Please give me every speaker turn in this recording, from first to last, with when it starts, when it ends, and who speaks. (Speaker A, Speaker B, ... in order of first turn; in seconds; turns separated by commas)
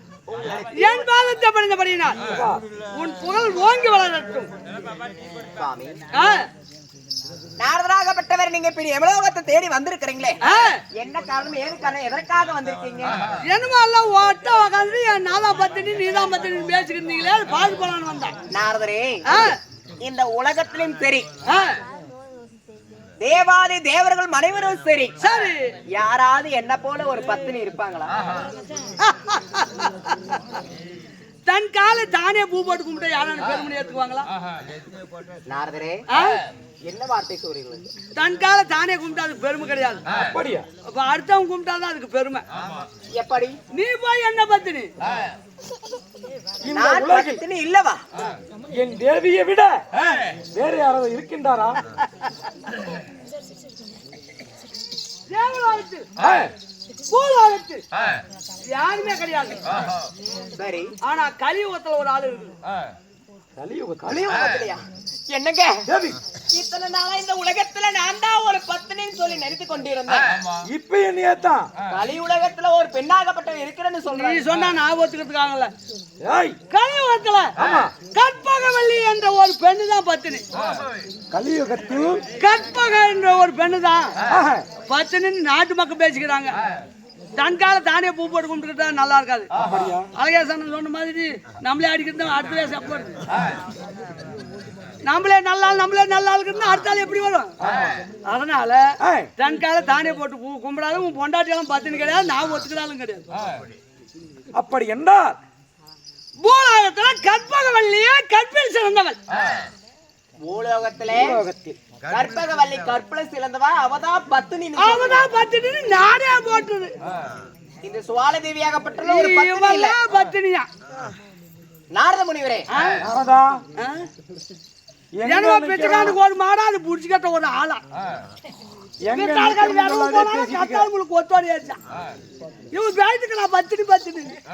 Speaker A: 0.3-1.1, Speaker B: 0.7-2.2, Speaker C: 2.3-2.6, Speaker B: 3.0-4.5, Speaker A: 5.5-6.0, Speaker B: 6.1-6.4, Speaker A: 7.6-13.2, Speaker B: 10.4-10.7, Speaker B: 13.5-18.3, Speaker A: 18.5-19.5, Speaker A: 20.0-21.3, Speaker B: 21.5-21.8, Speaker A: 23.2-25.1, Speaker B: 25.2-25.7, Speaker A: 25.9-28.1, Speaker B: 29.0-30.2, Speaker B: 31.5-34.3, Speaker A: 35.5-36.0, Speaker B: 36.1-36.4, Speaker A: 36.9-37.9, Speaker B: 38.1-40.0, Speaker C: 40.1-40.7, Speaker B: 40.9-42.4, Speaker A: 43.1-43.6, Speaker B: 43.7-44.9, Speaker C: 46.6-47.4, Speaker A: 46.7-48.0, Speaker C: 48.7-49.8, Speaker C: 50.5-51.8, Speaker B: 55.3-56.1, Speaker C: 56.2-56.5, Speaker B: 57.1-57.8, Speaker B: 58.7-59.6, Speaker A: 60.5-60.9, Speaker B: 61.0-62.5, Speaker C: 63.6-64.3, Speaker A: 64.1-65.8, Speaker C: 65.9-66.2, Speaker A: 66.5-70.4, Speaker C: 70.7-71.7, Speaker A: 71.9-74.4, Speaker B: 74.1-75.7, Speaker C: 76.2-76.6, Speaker B: 76.7-77.5, Speaker C: 77.6-77.9, Speaker B: 78.1-80.4, Speaker C: 81.3-82.2, Speaker B: 82.4-84.1, Speaker C: 84.3-84.6, Speaker B: 84.9-86.5, Speaker B: 87.4-89.5, Speaker C: 89.6-90.1, Speaker B: 90.1-93.2, Speaker B: 95.0-97.5, Speaker C: 97.6-97.9, Speaker B: 98.2-98.8, Speaker C: 99.0-99.3, Speaker B: 99.4-103.2, Speaker C: 104.5-105.4, Speaker B: 106.4-109.2, Speaker A: 110.4-111.4, Speaker C: 111.1-111.8, Speaker A: 112.1-115.3, Speaker B: 114.8-116.9, Speaker A: 117.8-120.0, Speaker B: 119.0-120.7, Speaker A: 121.9-122.7, Speaker B: 122.7-123.0, Speaker C: 123.0-123.6, Speaker B: 123.8-124.0, Speaker C: 125.2-126.2, Speaker B: 125.3-127.8, Speaker C: 129.0-130.8, Speaker B: 129.1-131.8, Speaker B: 132.7-134.3